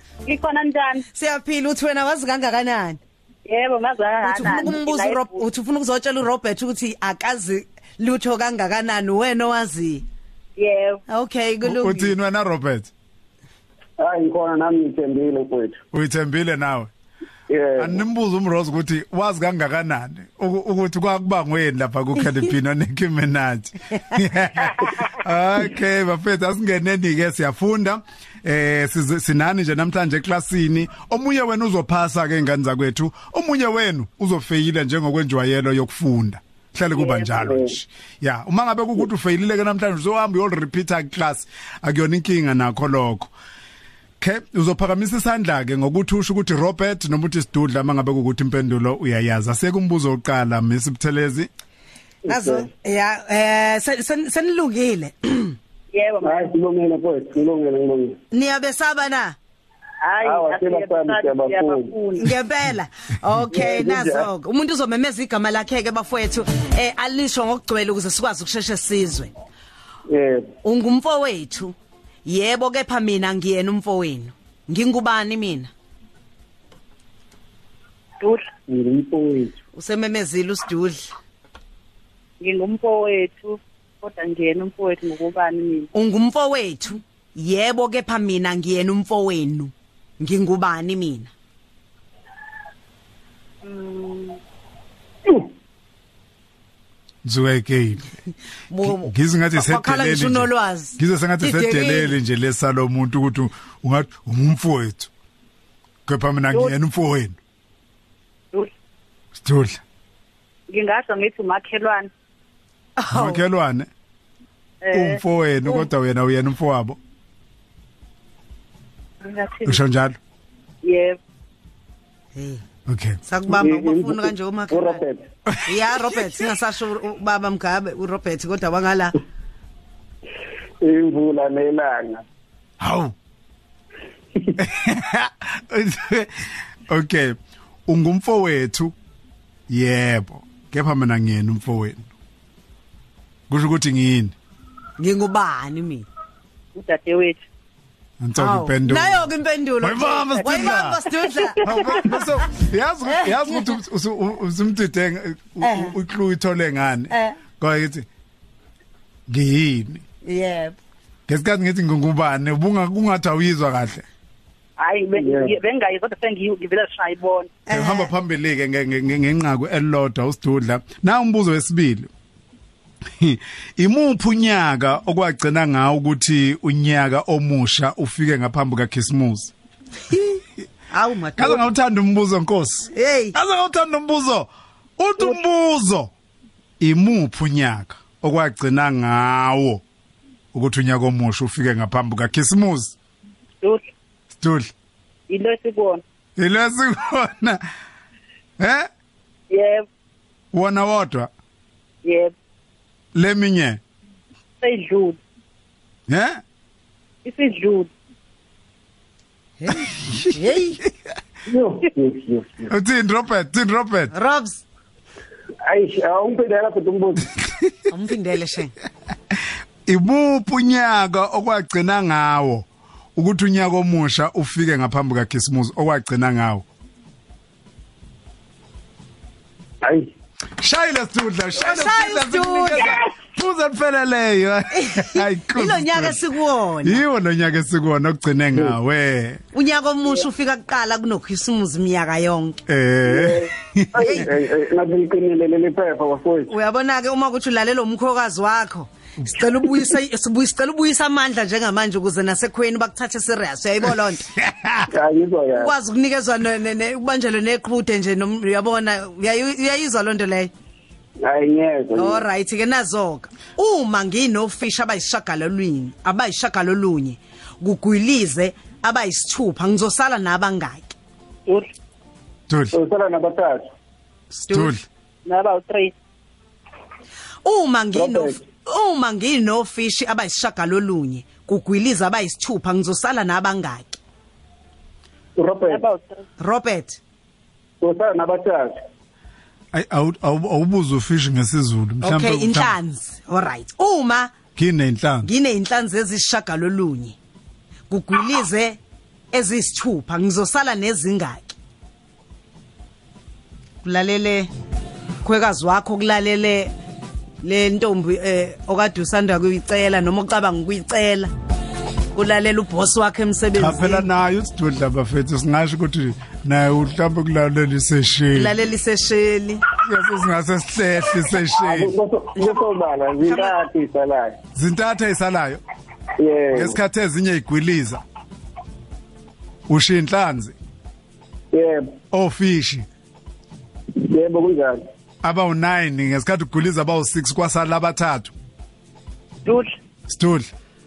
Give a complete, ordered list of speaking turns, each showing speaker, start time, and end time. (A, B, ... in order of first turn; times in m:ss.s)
0:00.3-0:01.0 A
0:01.1-0:03.0 B
0:03.5-0:05.4 A
0:04.2-0:10.0 B
0:10.6-0:11.0 A
0:11.1-0:12.1 B
0:11.6-0:12.9 C
0:14.0-0:15.8 D
0:15.9-0:16.9 C
0:17.5-0:18.0 D
0:17.8-0:43.3 C
0:37.0-0:37.4 A
0:44.2-0:51.5 C
0:52.3-0:52.7 D
0:52.3-0:55.6 B
0:55.9-0:56.5 A
0:56.2-0:58.2 D
0:58.3-0:59.4 B
1:00.0-1:02.3 A
1:00.2-1:01.9 D
1:02.2-1:09.3 B
1:03.5-1:04.3 D
1:10.1-1:10.5 D
1:10.6-1:11.8 B
1:12.3-1:15.7 B
1:18.7-1:19.5 D
1:19.8-1:21.1 B
1:22.4-1:25.9 A
1:25.9-1:31.3 B
1:33.6-1:34.4 A
1:37.2-1:38.2 C
1:38.7-1:42.2 B
1:38.8-1:45.1 C
1:46.1-1:47.4 C
1:49.4-1:49.8 C
1:50.7-1:52.1 A
1:53.0-1:53.4 B
1:53.1-1:53.9 C
1:54.8-1:55.8 A
1:54.9-1:57.0 C
1:59.2-1:59.8 A
1:59.7-2:00.2 C
2:00.8-2:01.2 A
2:02.4-2:02.6 B
2:02.9-2:03.2 C
2:03.2-2:05.0 B
2:03.5-2:05.2 D
2:05.6-2:06.4 C
2:05.7-2:09.2 B
2:10.8-2:12.2 D
2:12.8-2:13.1 C
2:14.6-2:17.3 C
2:17.9-2:18.9 C
2:19.7-2:22.1 C
2:23.5-2:24.4 C
2:25.0-2:26.1 B
2:26.8-2:27.4 A
2:28.2-2:29.3 C
2:28.4-2:32.2 B
2:29.8-2:31.0 C
2:30.4-2:31.1 A
2:31.6-2:38.1 C
2:31.6-2:32.1 A
2:33.1-2:33.8 B
2:35.6-2:36.0 B
2:37.1-2:37.4 B
2:39.3-2:40.0 C
2:40.2-2:40.8 B
2:41.3-2:44.0 C
2:44.8-2:47.5 A
2:45.2-2:45.5 D
2:47.7-2:48.1 B
2:47.7-2:52.1 C
2:53.2-2:59.5 C
3:00.1-3:01.6 B
3:01.4-3:06.1 C
3:02.9-3:03.4 B
3:06.8-3:09.8 C
3:10.5-3:13.0 C
3:14.3-3:14.7 C
3:15.3-3:16.0 A
3:16.4-3:17.6 C
3:18.6-3:18.9 C
3:19.5-3:19.8 A
3:20.5-3:21.3 C
3:22.0-3:22.3 A
3:23.2-3:23.8 C
3:24.6-3:25.2 A
3:26.1-3:26.4 C
3:27.2-3:27.9 A
3:29.6-3:30.8 B
3:31.5-3:32.7 D
3:32.7-3:34.1 C
3:34.1-3:34.6 B
3:35.6-3:37.3 D
3:37.9-3:38.8 B
3:39.9-3:46.7 C
3:49.8-3:50.1 D
3:50.6-3:56.2 C
3:51.6-3:53.0 B
3:54.8-3:57.0 B
3:56.8-3:59.4 C
3:59.5-4:02.6 B
4:02.7-4:04.3 C
4:03.0-4:06.5 D
4:04.0-4:04.3 B
4:06.5-4:14.3 B
4:14.4-4:14.9 C
4:14.9-4:15.7 D
4:15.5-4:20.5 B
4:21.2-4:22.2 D
4:22.0-4:30.9 B
4:32.5-4:32.8 C
4:32.7-4:33.7 D
4:34.4-4:34.8 B
4:34.5-4:34.8 C
4:35.2-4:35.9 A
4:37.4-4:44.0 B
4:37.9-4:38.4 D
4:45.4-4:45.8 D
4:45.7-4:46.2 A
4:46.4-4:47.0 B
4:47.8-4:48.8 D
4:49.7-4:52.8 C
4:52.0-4:54.3 B
4:54.6-4:55.3 C
4:55.2-4:57.2 B
4:57.9-4:58.8 B
4:59.3-5:01.6 B
5:03.8-5:04.5 B
5:05.2-5:06.7 B
5:07.4-5:11.3 B
5:12.1-5:14.1 B
5:13.6-5:18.6 C
5:18.3-5:19.6 B
5:19.8-5:21.9 C
5:21.6-5:24.4 D
5:24.6-5:25.6 C
5:26.2-5:26.8 D
5:26.5-5:28.0 C
5:29.7-5:30.6 C
5:31.5-5:31.9 D
5:32.1-5:32.9 C
5:34.0-5:34.8 D
5:35.2-5:38.3 C
5:39.4-5:39.7 A
5:40.1-5:40.5 C